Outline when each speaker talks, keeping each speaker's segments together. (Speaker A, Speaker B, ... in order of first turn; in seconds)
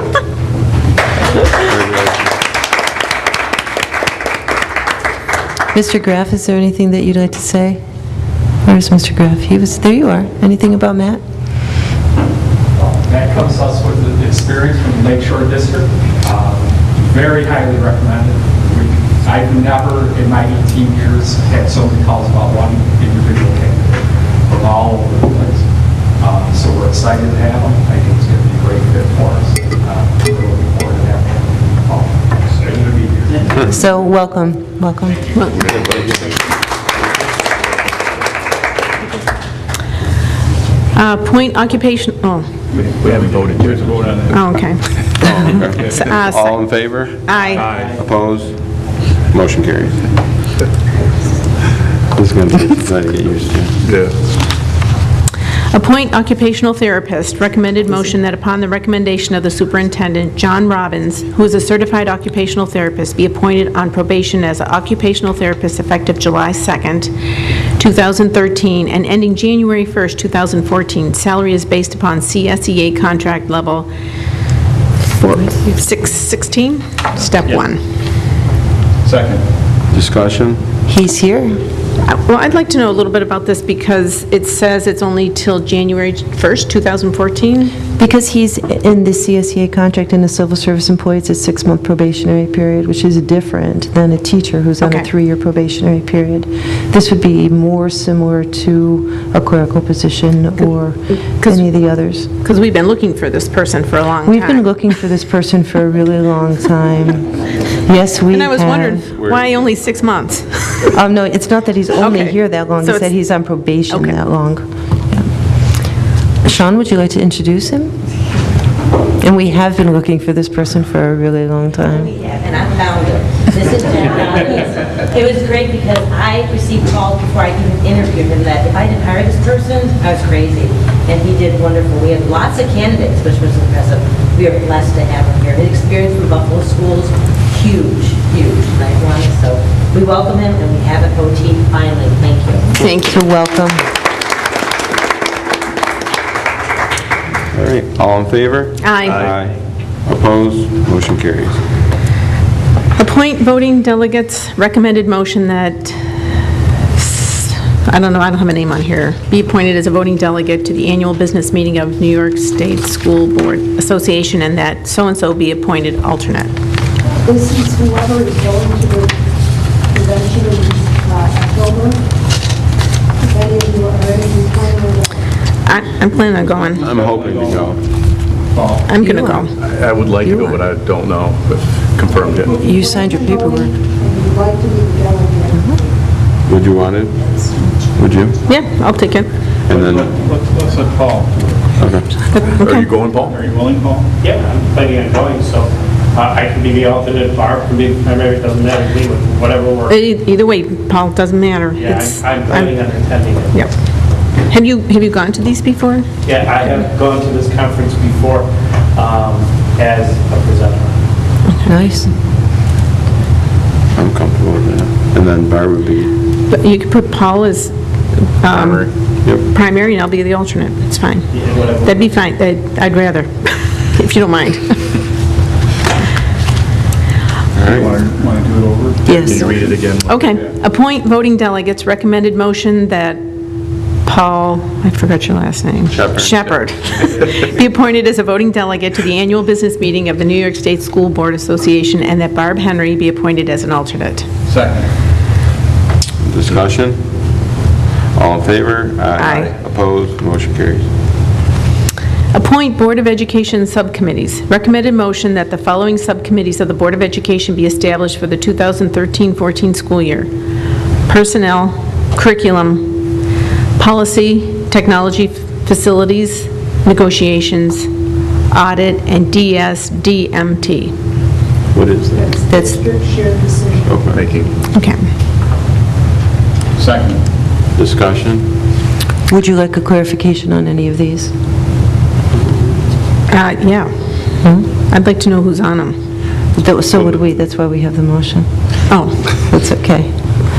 Speaker A: 1.5-2.3, 35.5-36.4, 45.2-50.1, 52.1-53.8, 79.9-80.6, 109.2-109.6, 147.5-151.6, 176.8-177.8, 186.5-187.4, 187.9-188.4, 189.7-190.2, 191.8-192.2, 213.9-216.1, 218.5-219.4, 227.5-228.1, 235.9-236.6, 246.2-247.6, 248.1-250.9, 271.7-272.3, 273.9-274.3, 277.7-278.6
Speaker B: 5.7-7.8, 8.6-11.2, 33.6-35.4, 80.9-81.6, 88.0-102.3, 104.3-109.0, 110.9-115.3, 116.4-117.9, 119.2-122.1, 142.8-143.8, 179.0-179.5, 180.1-180.6, 182.6-183.7, 211.7-212.1, 229.1-229.6, 272.5-272.8, 279.3-281.3, 284.4-284.7, 286.6-288.5, 289.5-290.1
Speaker C: 12.8-33.6, 42.8-44.3, 79.0-79.4, 176.8-177.7, 178.5-178.9, 180.0-182.1, 189.8-191.3, 193.2-194.1, 227.7-229.5, 244.4-244.9, 276.8-277.3
Speaker D: 40.9-42.5, 44.3-47.7, 55.7-67.1, 67.8-73.9, 75.2-77.8, 82.0-87.8, 94.8-95.1, 101.4-104.9, 108.3-110.9, 112.0-113.1, 113.9-114.2, 142.8-143.2, 148.8-149.3, 152.9-156.0, 157.0-166.5, 175.7-176.8, 178.9-179.5, 188.5-189.3, 192.3-192.9, 199.9-202.7, 204.5-206.1, 216.5-225.0, 230.1-233.2, 234.0-244.3, 249.2-249.6, 252.3-260.3, 261.1-263.0, 263.8-267.9, 268.5-270.9, 274.7-275.1, 283.3-283.9, 284.8-285.9, 288.9-289.2
Speaker E: 42.7-44.4, 53.8-54.2, 179.6-181.2, 181.9-182.5, 192.6-193.3, 229.2-230.4, 274.1-274.5
Speaker F: 47.3-48.1, 194.2-200.0, 201.7-203.7, 206.2-211.0, 221.3-222.2
Speaker G: 121.9-142.7
Speaker H: 167.2-169.2, 169.9-172.1, 173.2-175.2, 182.1-185.9, 187.2-187.7, 272.1-274.2